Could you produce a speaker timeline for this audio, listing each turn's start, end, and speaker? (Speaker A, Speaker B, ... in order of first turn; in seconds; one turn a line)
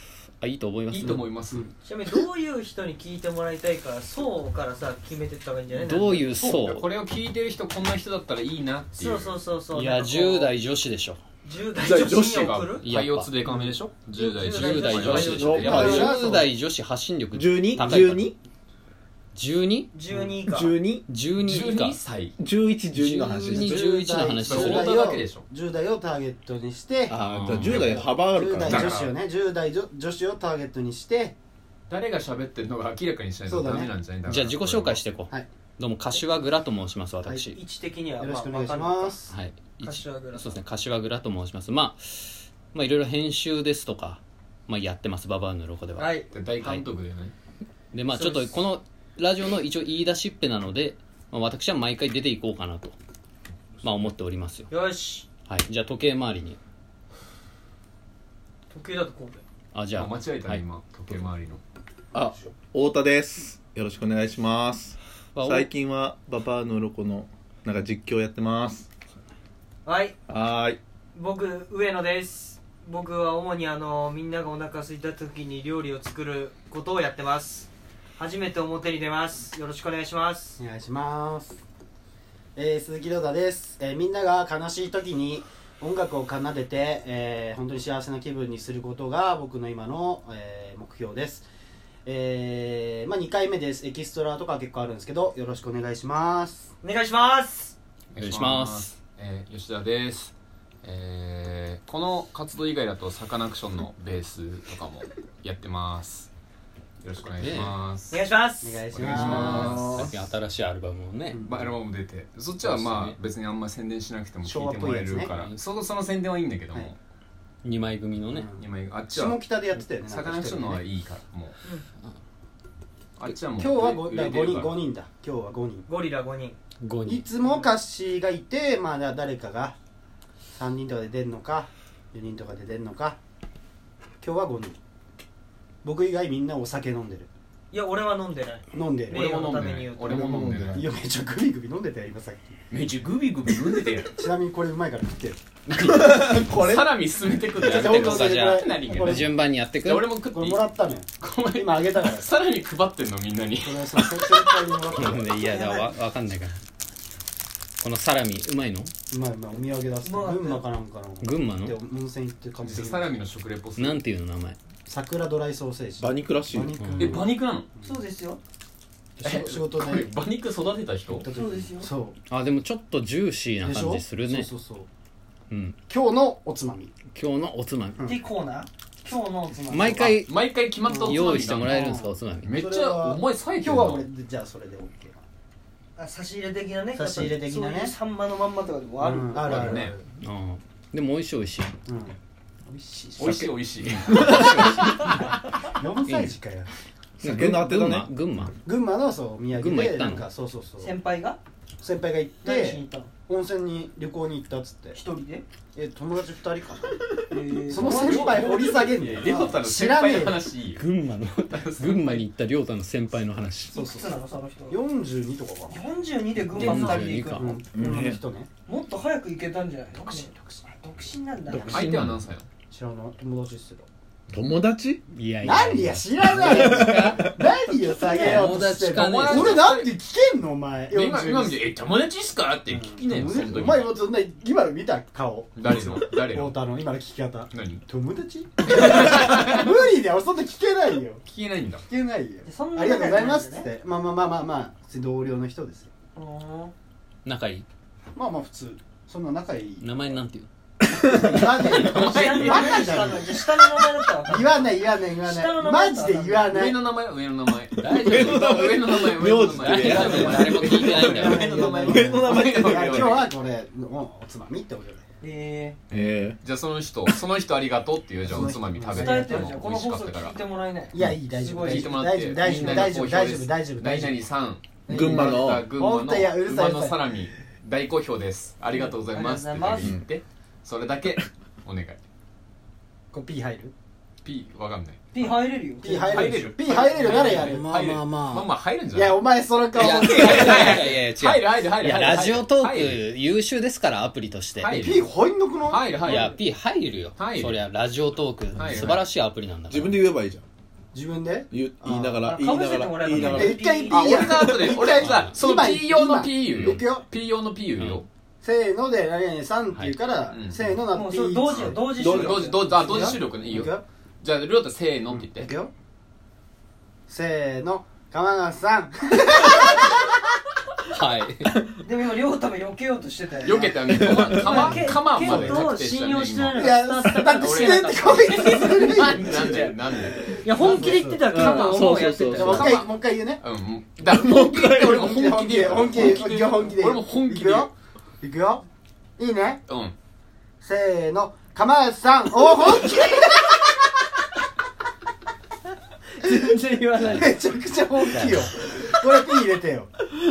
Speaker A: 0.4-1.2
Speaker B: 0.9-1.7
Speaker C: 1.1-1.7
Speaker D: 1.8-6.4
Speaker A: 5.7-6.9
Speaker B: 6.4-9.4
Speaker D: 8.9-10.5
Speaker A: 9.7-11.2
Speaker D: 11.4-12.8
Speaker E: 11.8-12.6
Speaker B: 11.8-16.1
Speaker A: 12.8-13.3
Speaker D: 14.1-15.2
Speaker A: 14.3-18.3
Speaker E: 14.9-16.5
Speaker C: 15.6-16.5
Speaker E: 17.3-18.3
Speaker A: 19.3-19.9
Speaker D: 19.9-20.8
Speaker E: 20.4-21.1
Speaker A: 21.1-22.0
Speaker B: 21.4-22.3
Speaker E: 22.4-24.2
Speaker C: 23.0-31.4
Speaker A: 23.4-24.9
Speaker B: 24.4-25.4
Speaker E: 27.1-29.1
Speaker B: 27.2-28.1
Speaker B: 28.6-29.1
Speaker B: 31.9-35.0
Speaker C: 33.5-33.9
Speaker A: 34.3-37.6
Speaker D: 37.4-39.2
Speaker C: 38.2-39.3
Speaker A: 39.3-46.1
Speaker D: 39.8-40.6
Speaker D: 46.0-46.3
Speaker B: 46.3-47.3
Speaker A: 46.6-46.9
Speaker A: 47.9-52.9
Speaker D: 48.1-48.5
Speaker A: 53.8-54.7
Speaker D: 54.7-55.3
Speaker A: 55.5-56.6
Speaker D: 58.7-59.4
Speaker A: 59.7-61.3
Speaker B: 60.0-61.6
Speaker E: 62.1-68.9
Speaker A: 65.4-65.7
Speaker D: 69.8-70.2
Speaker E: 70.3-70.8
Speaker D: 71.1-80.6
Speaker C: 80.6-81.6
Speaker C: 82.6-91.5
Speaker C: 92.1-96.7
Speaker D: 96.8-97.8
Speaker B: 98.1-100.3
Speaker A: 98.2-98.9
Speaker B: 100.8-106.3
Speaker B: 107.0-108.2
Speaker A: 107.4-107.7
Speaker D: 108.1-108.9
Speaker C: 108.6-109.9
Speaker B: 108.9-110.1
Speaker E: 109.0-110.1
Speaker A: 109.0-111.4
Speaker C: 111.3-111.6
Speaker B: 111.4-117.0
Speaker A: 112.6-113.2
Speaker C: 114.4-115.3
Speaker A: 117.6-118.5
Speaker C: 118.3-120.8
Speaker B: 118.6-121.6
Speaker B: 123.2-124.8
Speaker C: 123.6-125.9
Speaker D: 125.9-126.6
Speaker A: 126.8-127.3
Speaker C: 127.1-129.8
Speaker C: 130.6-133.2
Speaker C: 134.2-134.8
Speaker C: 135.8-137.3
Speaker D: 137.7-140.3
Speaker C: 138.7-142.6
Speaker B: 139.1-140.8
Speaker E: 140.1-140.9
Speaker B: 142.7-144.1
Speaker C: 144.1-145.4
Speaker E: 145.7-146.9
Speaker A: 145.8-146.1
Speaker B: 145.9-150.6
Speaker A: 147.6-150.1
Speaker C: 147.6-149.3
Speaker C: 150.3-152.3
Speaker B: 151.2-154.8
Speaker C: 153.6-155.6
Speaker A: 154.9-156.6
Speaker D: 155.4-155.9
Speaker A: 157.8-158.9
Speaker C: 159.1-163.1
Speaker D: 160.0-160.7
Speaker A: 161.2-161.8
Speaker B: 162.6-164.0
Speaker A: 163.8-164.6
Speaker C: 164.9-167.9
Speaker E: 166.0-166.8
Speaker A: 166.8-167.1
Speaker B: 167.0-167.7
Speaker D: 167.8-168.4
Speaker A: 169.2-169.6
Speaker C: 169.2-170.2
Speaker B: 169.2-171.2
Speaker C: 171.1-172.2
Speaker D: 171.3-171.9
Speaker A: 172.3-174.5
Speaker C: 173.6-174.9
Speaker A: 175.5-175.8
Speaker C: 175.9-176.9
Speaker A: 177.1-178.0
Speaker D: 178.1-180.1
Speaker A: 179.7-180.3
Speaker B: 179.9-184.0
Speaker A: 180.9-182.5
Speaker C: 181.1-185.2
Speaker D: 186.0-189.8
Speaker C: 186.9-187.9
Speaker C: 189.0-190.0
Speaker B: 189.4-190.0
Speaker A: 190.2-191.7
Speaker C: 191.9-193.5
Speaker B: 193.2-195.4
Speaker C: 195.8-196.7
Speaker A: 196.1-196.4
Speaker E: 197.2-198.1
Speaker A: 197.2-198.6
Speaker C: 198.6-200.9
Speaker A: 199.5-200.3
Speaker D: 200.8-201.4
Speaker C: 201.8-205.0
Speaker D: 202.4-203.1
Speaker D: 204.9-205.4
Speaker C: 205.8-207.0
Speaker D: 207.3-209.4
Speaker C: 207.7-210.5
Speaker B: 207.8-210.8
Speaker E: 207.8-208.2
Speaker A: 210.8-213.7
Speaker B: 211.5-212.3
Speaker D: 213.7-214.8
Speaker C: 213.7-215.8
Speaker D: 215.7-217.6
Speaker A: 216.5-217.6
Speaker C: 216.6-218.5
Speaker E: 217.7-218.2
Speaker D: 218.7-221.8
Speaker B: 220.0-220.6
Speaker C: 221.5-222.0
Speaker E: 221.6-222.1
Speaker B: 221.7-222.5
Speaker C: 222.7-223.9
Speaker E: 224.3-225.0
Speaker A: 225.1-227.3
Speaker C: 225.4-231.6
Speaker E: 226.4-227.3
Speaker D: 227.7-228.4
Speaker A: 228.1-229.7
Speaker B: 228.8-229.9
Speaker B: 230.9-233.9
Speaker C: 232.7-241.2
Speaker B: 235.6-236.6
Speaker B: 237.5-237.8
Speaker B: 238.7-239.8
Speaker B: 241.2-241.8
Speaker C: 241.8-245.9
Speaker D: 242.4-243.7
Speaker D: 246.1-246.7
Speaker A: 247.2-247.6
Speaker C: 248.1-250.1
Speaker A: 249.8-250.5
Speaker C: 251.0-253.3
Speaker E: 251.1-251.7
Speaker A: 251.3-252.1
Speaker B: 251.7-253.1
Speaker D: 251.9-256.6
Speaker C: 254.2-256.9
Speaker B: 256.5-263.3
Speaker A: 257.8-258.8
Speaker E: 257.9-260.8
Speaker A: 259.4-261.7
Speaker C: 259.9-265.0
Speaker E: 261.8-263.3
Speaker D: 265.2-265.8
Speaker B: 265.9-270.4
Speaker E: 265.9-266.4
Speaker C: 268.2-269.6
Speaker D: 268.9-272.0
Speaker C: 270.9-274.3
Speaker E: 270.9-271.2
Speaker B: 271.6-282.0
Speaker E: 272.4-272.9
Speaker D: 274.9-275.2
Speaker E: 274.9-275.7
Speaker C: 274.9-277.1
Speaker D: 278.7-279.9
Speaker E: 279.8-280.1
Speaker C: 283.1-283.7
Speaker B: 284.2-285.0
Speaker D: 285.1-287.6
Speaker C: 285.8-288.1
Speaker B: 286.1-289.2
Speaker A: 287.8-288.5
Speaker C: 288.9-291.0
Speaker B: 289.7-293.0
Speaker A: 289.8-294.9
Speaker B: 294.6-295.1
Speaker C: 294.7-296.4
Speaker B: 295.7-296.4
Speaker A: 296.0-300.0
Speaker B: 297.1-297.6
Speaker B: 298.6-299.0
Speaker E: 299.7-300.4
Speaker C: 300.9-302.4
Speaker E: 301.5-304.8
Speaker D: 302.3-304.2
Speaker C: 303.2-307.1
Speaker B: 303.9-308.1
Speaker A: 305.0-305.3
Speaker C: 308.4-313.8
Speaker B: 310.3-310.7
Speaker D: 310.9-313.2
Speaker E: 311.9-312.6
Speaker B: 312.1-315.5
Speaker C: 315.1-315.7
Speaker C: 317.1-320.1
Speaker A: 320.9-321.5
Speaker D: 321.8-329.6
Speaker B: 323.4-326.7
Speaker C: 323.5-323.9
Speaker E: 323.9-324.7
Speaker C: 324.4-325.7
Speaker C: 326.5-329.7
Speaker B: 327.3-330.2
Speaker D: 330.3-332.7
Speaker C: 330.5-331.4
Speaker E: 330.7-332.8
Speaker B: 331.3-337.7
Speaker C: 332.2-333.4
Speaker E: 334.0-336.2
Speaker C: 334.9-337.7
Speaker C: 338.2-338.7
Speaker C: 339.2-339.6
Speaker B: 339.7-339.9
Speaker C: 340.6-343.6
Speaker D: 346.1-347.4
Speaker C: 347.0-349.9
Speaker A: 348.0-348.5
Speaker D: 348.6-348.9